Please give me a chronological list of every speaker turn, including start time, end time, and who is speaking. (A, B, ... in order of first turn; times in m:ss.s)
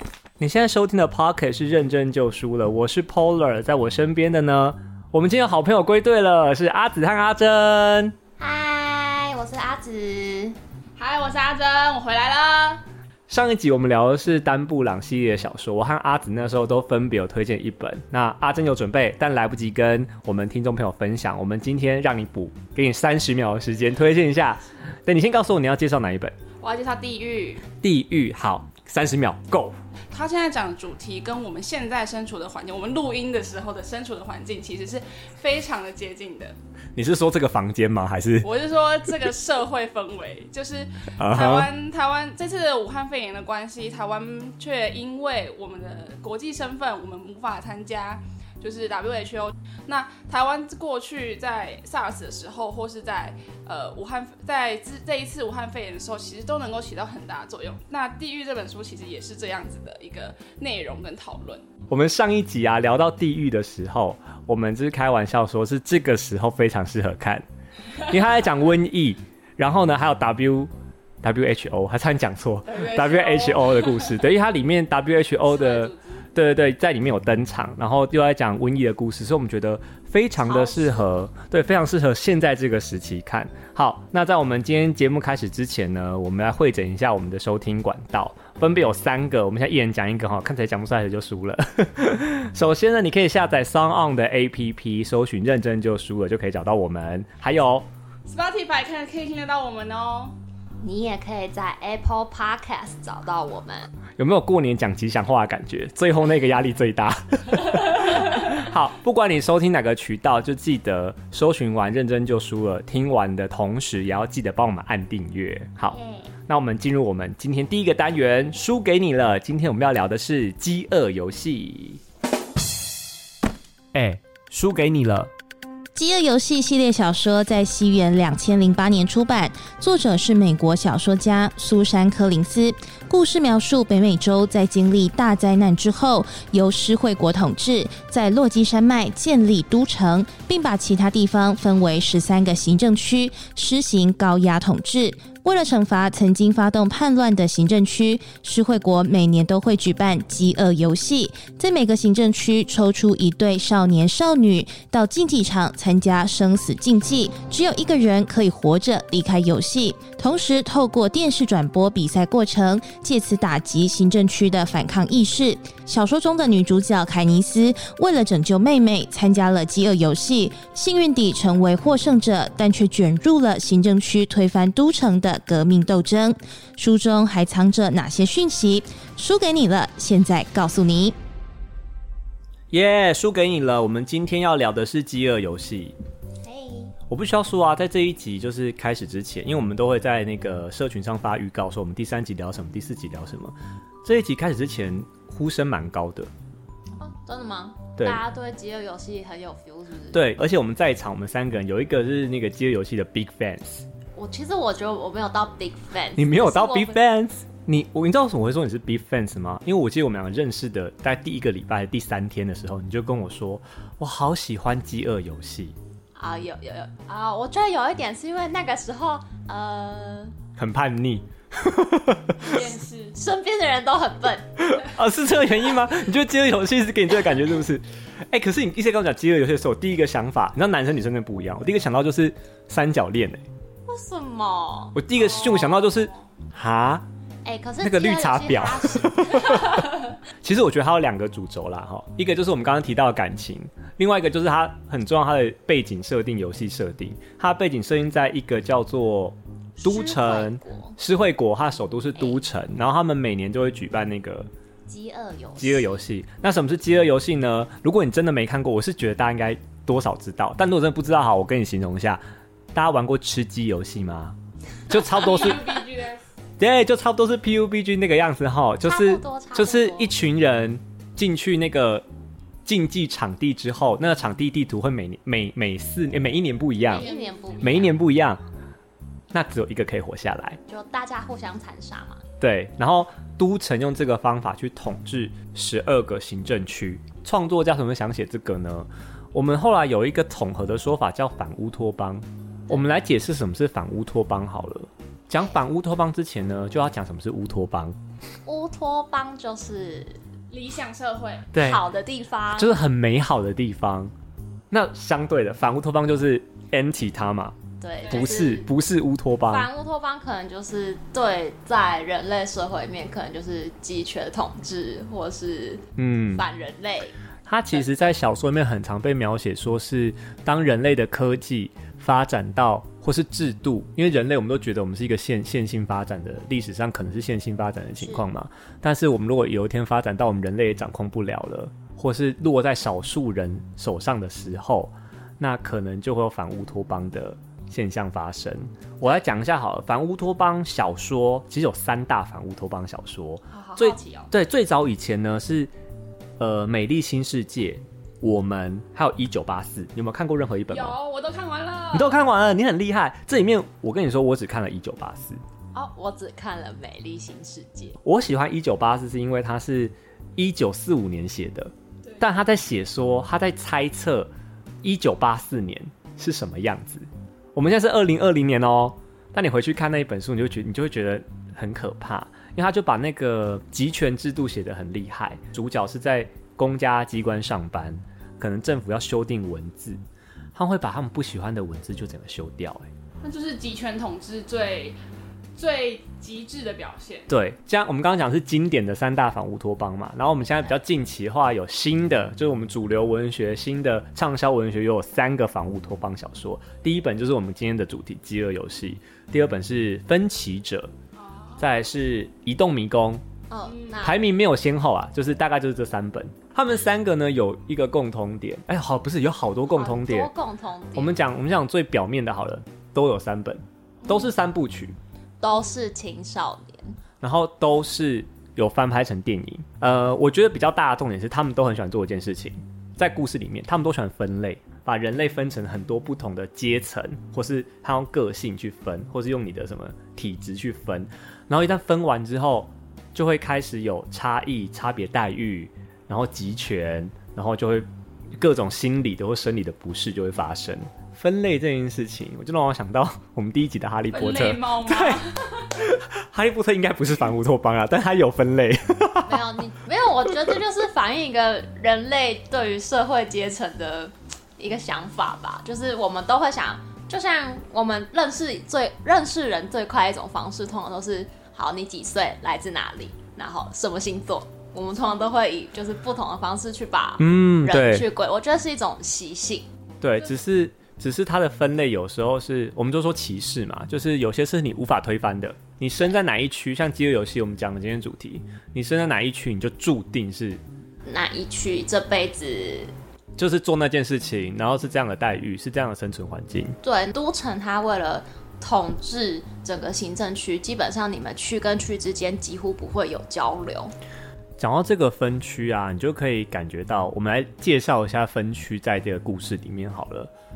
0:00.4-0:08.1 A
0:08.4-0:10.6 B
0:11.0-0:12.8 C
0:13.3-0:26.3 A
0:26.6-0:27.6 C
0:27.8-0:29.8 A
0:30.1-0:36.6 C
0:37.0-0:38.5 A
0:38.4-1:01.6 C
0:41.2-0:41.7 A
1:01.9-1:07.4 A
1:08.0-1:10.7 A
1:11.2-1:37.9 A
1:12.7-1:14.1 C
1:15.4-1:16.2 C
1:20.5-1:21.0 B
1:38.2-1:40.3 C
1:40.8-1:43.9 B
1:44.2-2:02.0 A
1:55.9-1:56.3 B
2:03.9-2:05.3 A
2:05.9-3:01.1 D
3:02.7-3:05.9 A
3:06.4-3:06.9 B
3:07.1-3:16.3 A
3:17.0-3:20.2 B
3:20.1-3:23.8 A
3:24.2-3:27.0 B
3:26.2-3:35.8 A
3:36.2-3:40.4 B
3:40.6-3:42.6 A
3:42.4-3:43.2 C
3:43.1-3:44.6 B
3:44.6-3:53.4 A
3:53.8-3:55.0 B
3:54.9-3:57.0 A
3:55.4-3:55.9 C
3:57.4-3:59.8 B
3:57.8-4:14.5 A
4:09.8-4:11.0 B
4:12.2-4:12.4 B
4:14.9-4:16.0 B
4:15.6-4:22.2 A
4:22.7-4:24.4 A
4:24.9-4:25.7 A
4:24.9-4:26.2 C
4:26.6-4:32.0 A
4:28.8-4:30.1 B
4:32.6-4:37.1 A
4:36.9-4:38.0 B
4:36.9-4:37.3 C
4:37.6-4:38.4 A
4:39.3-4:40.6 A
4:40.7-4:42.2 B
4:42.4-4:58.0 A
4:58.4-5:00.2 B
5:00.5-5:01.5 C
5:01.5-5:01.8 A
5:01.6-5:02.8 B
5:02.5-5:04.1 A
5:04.7-5:07.6 A
5:07.8-5:08.6 B
5:08.0-5:08.4 C
5:08.1-5:09.7 A
5:09.5-5:17.1 B
5:16.0-5:16.4 A
5:17.5-5:45.7 A
5:28.0-5:28.2 B
5:43.5-5:44.3 C
5:46.4-5:51.0 A
5:50.7-5:52.2 C
5:51.9-5:55.4 A
5:55.7-5:58.0 B
5:58.0-6:04.3 A
6:04.8-6:20.0 A
6:20.5-6:22.9 A
6:23.2-6:25.0 C
6:25.6-6:27.3 C
6:27.3-6:40.9 A
6:41.6-6:43.2 A
6:43.5-6:44.2 B
6:43.7-6:44.0 C
6:44.0-6:50.3 A
6:49.8-6:51.2 B
6:51.0-6:55.0 A
6:55.4-6:57.0 B
6:57.2-7:17.9 A
7:18.4-7:29.4 A
7:24.1-7:25.7 C
7:29.3-7:49.7 B
7:47.2-7:48.0 A
7:50.0-8:00.6 A
8:01.0-8:02.9 B
8:03.4-8:06.8 A
8:06.8-8:13.9 B
8:14.6-8:20.3 A